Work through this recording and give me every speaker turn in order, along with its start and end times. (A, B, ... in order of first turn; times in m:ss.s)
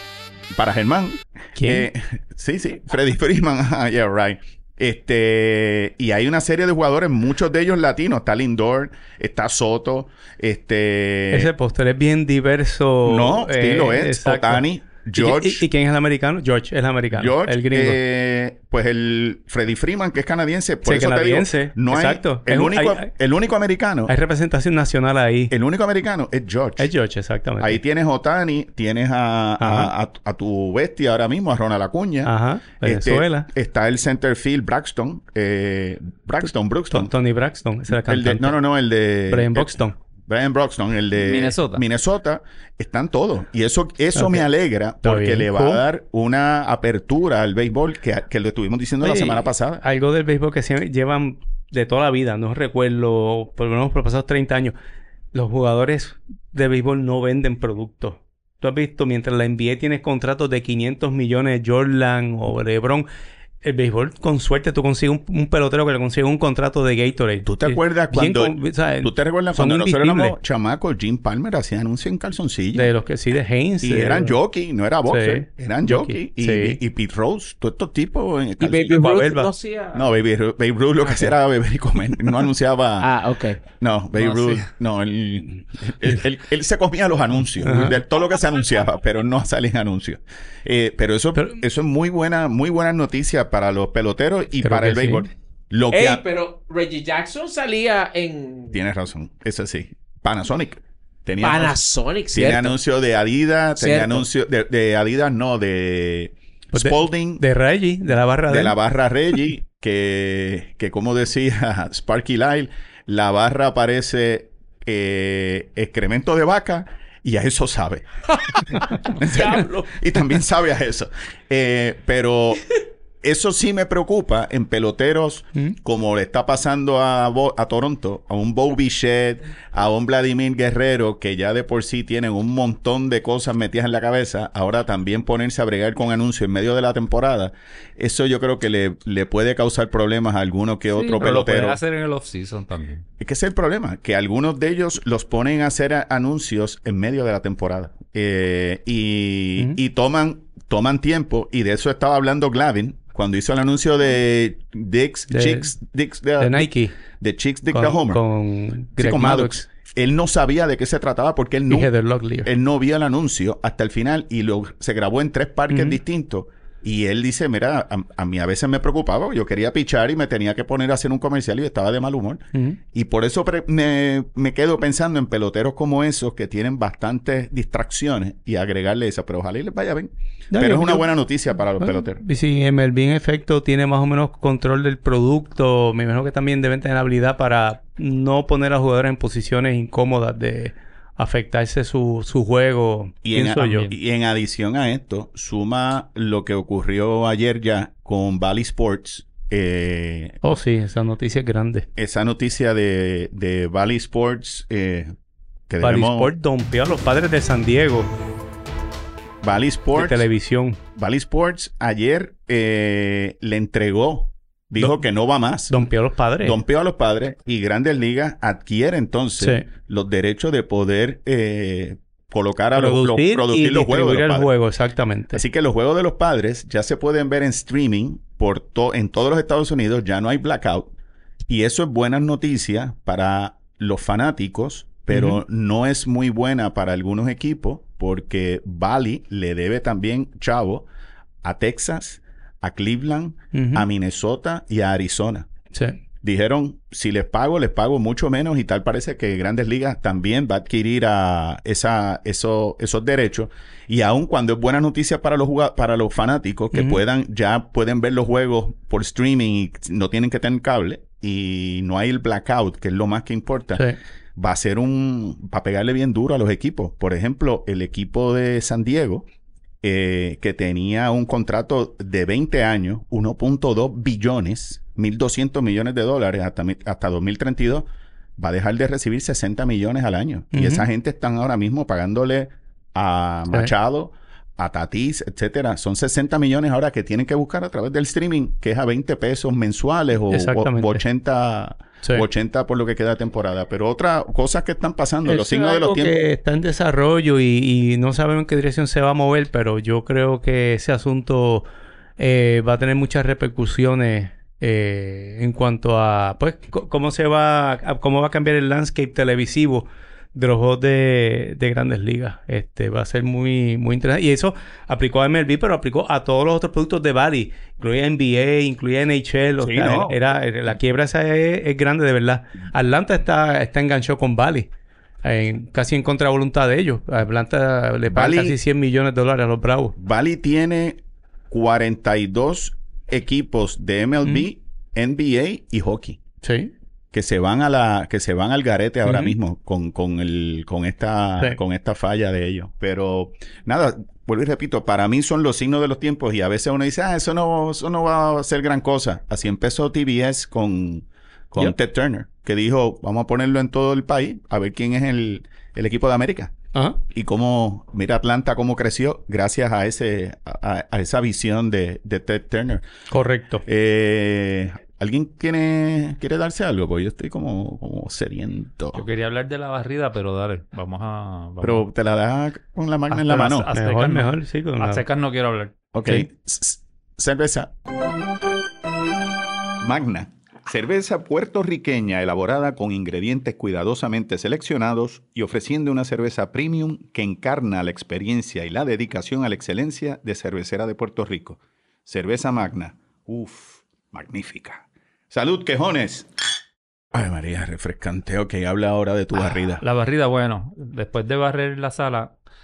0:00.5-0:11.5 A
0:01.6-0:01.9 B
0:11.3-0:18.0 B
0:13.0-0:15.6 A
0:17.1-0:24.1 A
0:20.8-0:23.1 B
0:24.1-0:25.5 B
0:25.5-0:26.9 A
0:26.8-0:27.8 B
0:27.6-0:37.1 A
0:29.6-0:29.9 B
0:32.2-0:33.5 B
0:36.9-0:38.6 B
0:37.9-0:49.8 A
0:39.3-0:40.0 B
0:41.1-0:41.8 C
0:44.1-0:44.4 B
0:45.0-0:45.8 B
0:49.0-0:54.7 B
0:55.3-1:03.1 B
1:03.6-1:10.4 B
1:07.4-1:12.9 A
1:12.7-1:14.4 B
1:13.8-1:19.1 A
1:15.1-1:16.8 B
1:18.6-1:20.1 D
1:18.9-1:19.5 B
1:19.9-1:23.1 A
1:23.0-1:23.6 D
1:23.7-1:36.2 A
1:24.2-1:24.7 C
1:27.6-1:28.0 B
1:34.6-1:35.3 B
1:35.9-1:38.8 D
1:38.7-1:41.7 A
1:41.4-1:42.8 D
1:42.3-1:47.4 A
1:43.8-1:44.2 D
1:46.7-1:48.8 B
1:48.5-2:02.6 A
1:59.2-1:59.9 D
2:03.2-2:21.8 A
2:20.9-2:23.0 C
2:23.2-2:38.2 A
2:35.3-2:35.7 B
2:36.4-2:37.0 B
2:37.7-2:39.7 B
2:39.0-2:41.9 A
2:41.7-2:42.5 B
2:42.4-3:02.2 A
2:45.7-2:46.0 B
3:00.5-3:01.1 B
3:01.8-3:13.9 B
3:13.2-3:20.4 A
3:20.4-3:21.9 B
3:22.0-3:25.1 A
3:25.7-3:26.3 A
3:25.8-3:28.1 B
3:29.4-3:30.2 A
3:29.9-3:30.8 B
3:30.9-3:35.8 A
3:35.7-3:36.6 B
3:36.4-3:44.5 A
3:39.4-3:39.7 B
3:42.7-3:45.4 B
3:45.3-3:50.9 A
3:51.5-4:00.9 A
3:55.1-3:55.4 B
4:01.4-4:05.5 A
4:03.5-4:03.9 B
4:05.7-4:06.0 B
4:06.2-4:23.8 A
4:16.7-4:17.0 B
4:24.4-4:29.3 A
4:29.8-4:56.2 A
4:40.5-4:40.9 B
4:50.3-4:51.0 B
4:55.2-5:01.6 B
5:02.2-5:24.7 B
5:19.6-5:20.1 A
5:25.2-5:29.9 B
5:28.1-5:28.6 A
5:30.0-5:36.2 A
5:36.4-5:36.7 B
5:37.1-5:56.5 A
5:39.0-5:39.4 B
5:57.1-6:02.8 A
6:03.1-6:03.6 B
6:03.6-6:09.0 A
6:08.9-6:11.8 C
6:11.6-6:13.7 A
6:13.1-6:15.7 C
6:13.7-6:15.0 B
6:15.9-6:17.7 A
6:19.8-6:36.3 A
6:37.1-6:39.8 A
6:39.4-6:42.3 C